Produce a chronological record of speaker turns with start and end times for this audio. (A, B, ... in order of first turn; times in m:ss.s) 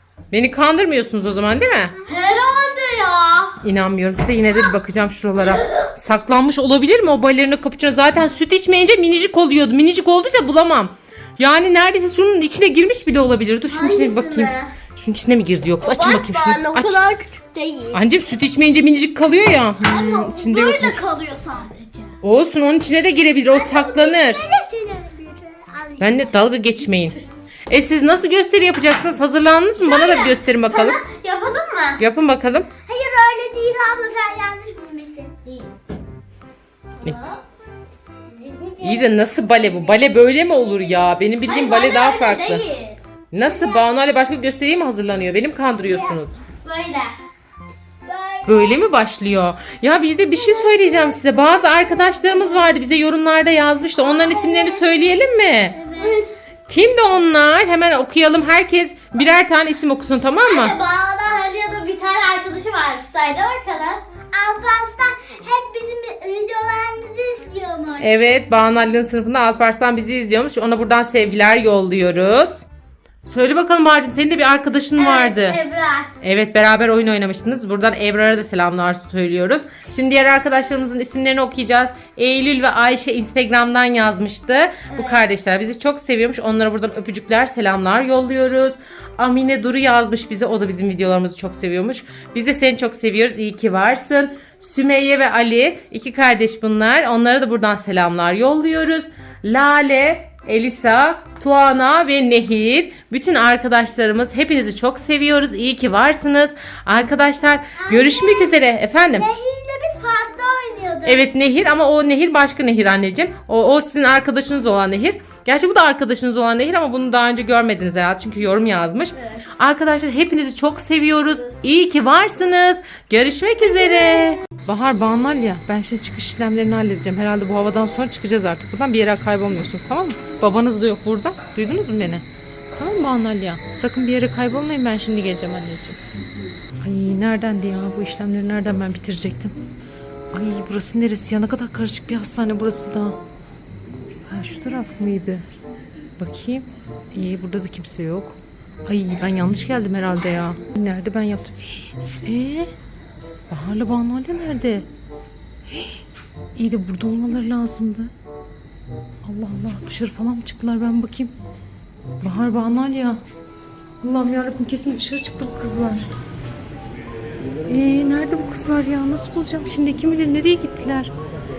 0:00.3-0:02.0 A
0:02.1-0:03.6 B
0:03.6-0:17.0 A
0:13.7-0:14.7 B
0:15.8-0:18.0 B
0:17.9-0:21.0 A
0:19.8-0:22.2 B
0:22.2-0:24.4 A
0:23.5-0:26.4 C
0:26.0-0:27.2 A
0:27.7-0:31.0 A
0:29.8-0:32.0 B
0:32.0-0:32.7 A
0:32.9-0:35.7 C
0:37.0-0:37.4 B
0:38.3-0:41.0 C
0:38.8-0:42.6 A
0:41.4-0:43.8 B
0:43.3-0:46.4 A
0:45.9-0:47.2 B
0:48.1-0:48.8 C
0:48.4-0:55.8 A
0:54.1-0:55.0 C
0:55.7-0:56.3 C
0:56.0-0:56.3 B
0:56.7-1:00.8 A
1:00.4-1:04.0 B
1:04.3-1:08.2 C
1:08.0-1:12.6 A
1:13.2-1:15.6 A
1:15.0-1:16.1 B
1:16.2-1:49.3 A
1:24.9-1:25.3 B
1:47.8-1:51.3 C
1:51.0-2:12.2 A
2:12.8-2:16.0 A
2:16.8-2:19.6 A
2:20.3-2:23.2 A
2:24.3-2:25.5 A
2:26.2-2:32.7 A
2:33.5-2:34.9 A
2:35.7-2:36.0 A
2:36.6-2:38.1 A
2:39.2-2:41.3 A
2:42.2-2:43.2 A
2:44.0-2:46.1 A
2:47.6-2:51.1 A